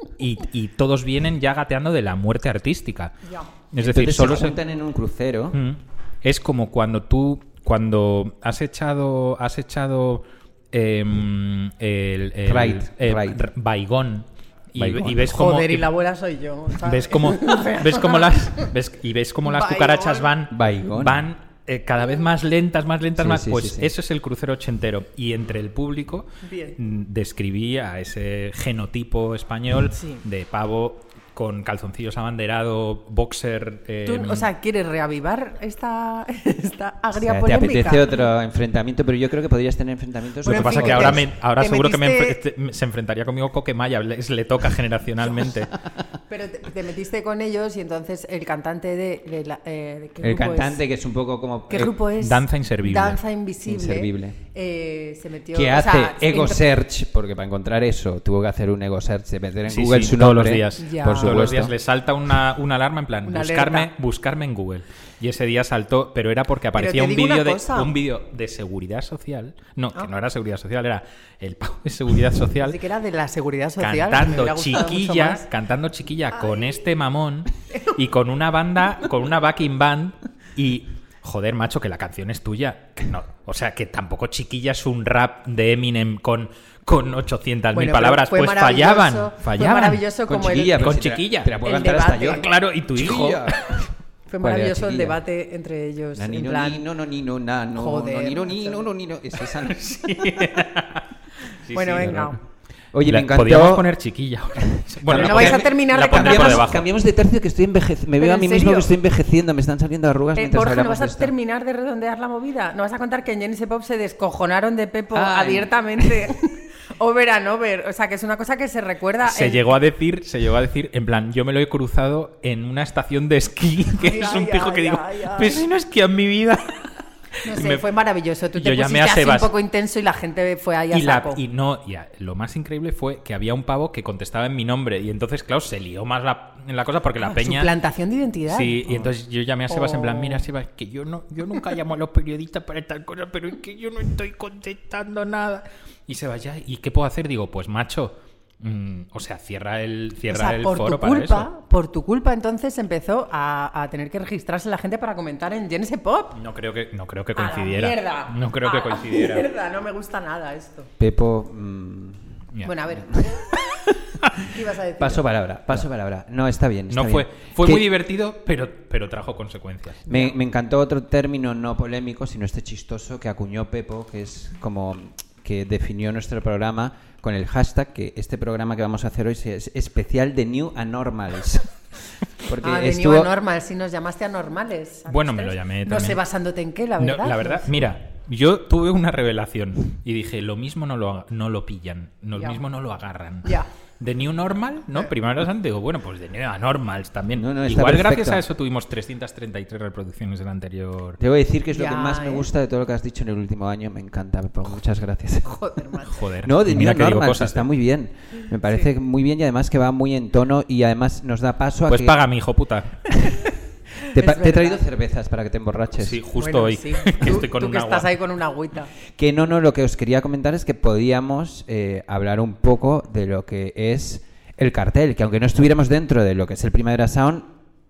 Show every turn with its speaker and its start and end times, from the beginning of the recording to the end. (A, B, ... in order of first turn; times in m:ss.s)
0:00.2-0:03.1 A
0:03.2-0:03.5 B
0:03.7-0:04.6 A
0:03.8-0:05.6 C
0:05.5-0:15.9 A
0:12.5-0:13.5 C
0:14.8-0:15.3 C
0:15.2-0:18.7 B
0:16.8-0:26.3 A
0:19.5-0:20.3 B
0:20.5-0:21.3 C
0:23.2-0:23.9 C
0:26.4-0:26.8 B
0:26.8-0:34.5 A
0:30.0-0:30.2 B
0:34.1-0:38.3 B
0:37.1-0:41.2 C
0:40.4-0:42.4 B
0:40.5-0:45.7 A
0:46.3-0:50.8 B
0:50.2-0:52.0 C
0:51.7-0:56.7 B
0:52.2-0:53.2 A
0:53.6-0:54.4 C
0:55.5-1:01.7 C
0:59.7-1:12.8 A
1:00.8-1:01.6 B
1:03.3-1:03.9 B
1:06.8-1:07.9 B
1:12.6-1:15.5 B
1:13.8-1:30.0 A
1:27.7-1:30.8 B
1:30.3-1:33.9 C
1:30.8-1:31.6 A
1:31.6-1:32.4 B
1:32.3-1:33.8 A
1:34.3-1:36.8 B
1:34.4-1:35.2 C
1:36.2-1:39.9 C
1:37.8-1:38.9 B
1:39.6-1:41.0 A
1:41.7-1:42.1 A
1:41.7-1:42.4 B
1:42.0-1:42.4 C
1:42.9-1:43.9 C
1:43.0-1:46.8 A
1:45.0-1:51.3 C
1:45.1-1:46.6 B
1:48.2-1:48.9 B
1:50.4-1:59.6 B
1:55.1-1:56.3 C
1:59.2-2:06.9 A
2:04.0-2:05.6 B
2:07.4-2:11.4 B
2:07.5-2:07.9 A
2:08.6-2:09.5 A
2:10.9-2:17.7 A
2:17.2-2:19.1 B
2:18.5-2:31.5 A
2:19.7-2:20.4 B
2:30.3-2:36.4 B
2:36.4-2:39.5 A
2:37.4-2:40.9 B
2:41.0-2:42.4 C
2:42.6-2:43.5 B
2:44.4-2:45.2 B
2:45.0-2:47.9 C
2:46.9-2:50.0 A
2:50.1-2:50.4 B
2:50.1-3:01.7 C
3:02.4-3:03.3 C
3:02.6-3:07.7 B
3:05.1-3:06.2 A
3:07.0-3:21.2 A
3:12.4-3:12.6 B
3:17.3-3:18.4 C
3:21.2-3:25.7 C
3:21.7-3:22.5 B
3:25.5-3:26.2 B
3:26.1-3:27.7 A
3:26.4-3:32.2 C
3:31.9-3:33.1 A
3:34.1-3:36.2 C
3:34.2-3:34.8 B
3:36.0-3:38.2 A
3:36.4-3:38.9 B
3:39.2-3:47.5 C